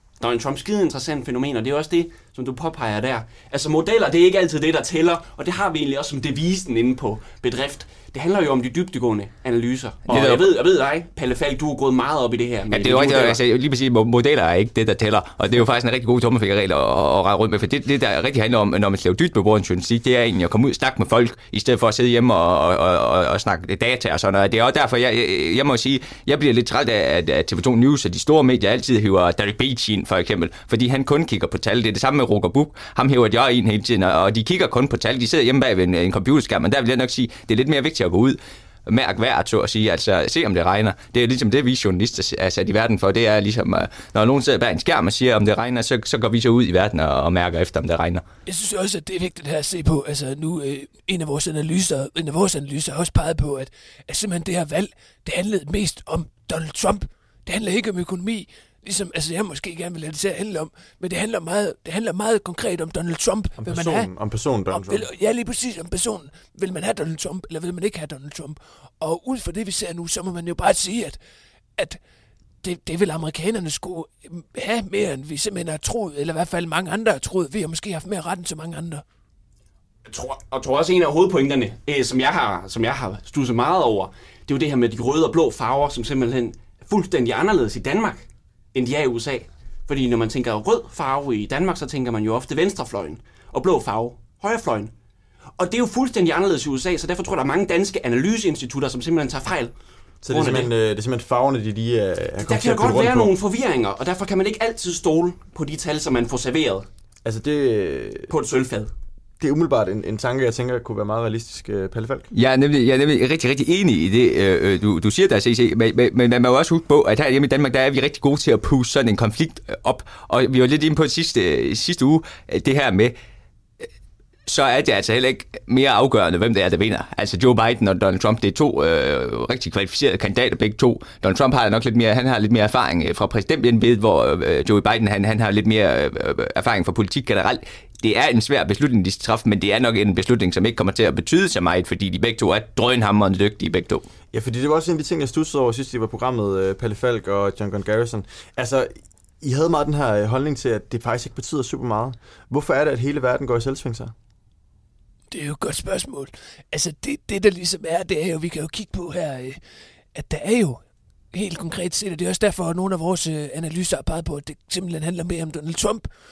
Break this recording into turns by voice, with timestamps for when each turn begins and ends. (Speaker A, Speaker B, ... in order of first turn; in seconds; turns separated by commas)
Speaker A: 0.2-13.4, Speaker B: 10.1-10.5, Speaker B: 12.7-48.2, Speaker C: 48.5-64.1, Speaker D: 63.6-65.1, Speaker C: 64.7-71.2, Speaker C: 72.6-79.0, Speaker A: 80.0-94.9, Speaker A: 95.6-99.7, Speaker D: 100.2-103.3, Speaker A: 100.3-100.7, Speaker A: 102.4-106.9, Speaker D: 107.2-108.3, Speaker A: 108.3-108.9, Speaker D: 109.4-112.3, Speaker B: 112.3-123.1, Speaker B: 124.5-144.0, Speaker D: 144.3-154.1, Speaker C: 155.3-159.6, Speaker C: 160.1-166.1